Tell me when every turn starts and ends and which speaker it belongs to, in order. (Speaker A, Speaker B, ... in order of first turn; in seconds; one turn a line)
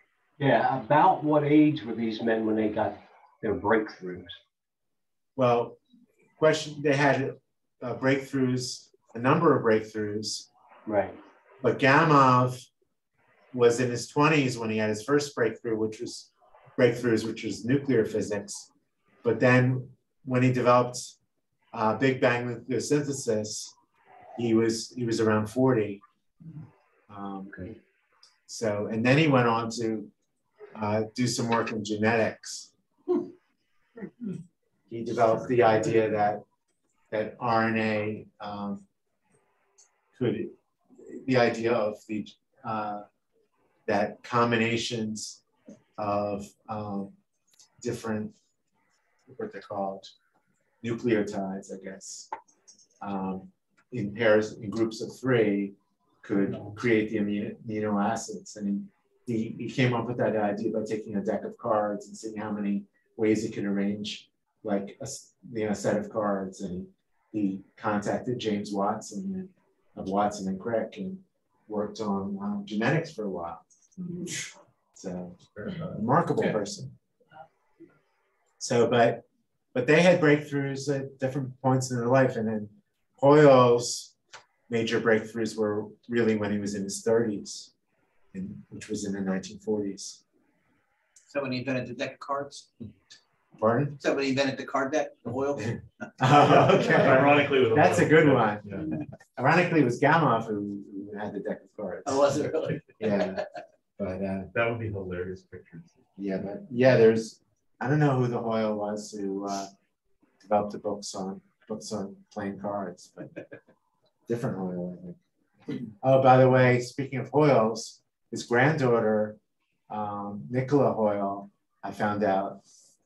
Speaker A: 0.4-4.3
Speaker B: 5.3-5.8
Speaker B: 6.4-10.5
Speaker A: 10.9-11.1
Speaker B: 11.6-12.7
Speaker B: 13.5-18.7
Speaker B: 19.2-21.1
Speaker B: 21.7-23.7
Speaker B: 24.4-26.0
Speaker B: 27.1-27.8
Speaker B: 28.5-30.1
Speaker B: 30.7-32.7
Speaker B: 34.9-36.4
Speaker B: 37.1-38.8
Speaker B: 40.1-43.0
Speaker B: 43.9-45.4
Speaker B: 46.0-47.1
Speaker B: 47.8-48.3
Speaker B: 49.3-50.1
Speaker B: 50.8-52.3
Speaker B: 53.0-73.6
Speaker B: 75.0-76.9
Speaker C: 75.5-75.9
Speaker B: 78.6-84.1
Speaker B: 84.7-87.7
Speaker B: 88.3-90.2
Speaker D: 91.3-92.7
Speaker B: 93.6-94.0
Speaker D: 94.0-97.0
Speaker B: 95.6-102.3
Speaker C: 96.4-98.9
Speaker D: 102.0-103.4
Speaker B: 103.0-103.4
Speaker B: 104.0-104.5
Speaker C: 104.5-105.9
Speaker B: 106.2-109.7
Speaker B: 110.4-113.3
Speaker B: 114.3-115.2
Speaker B: 115.9-119.4
Speaker B: 119.9-122.6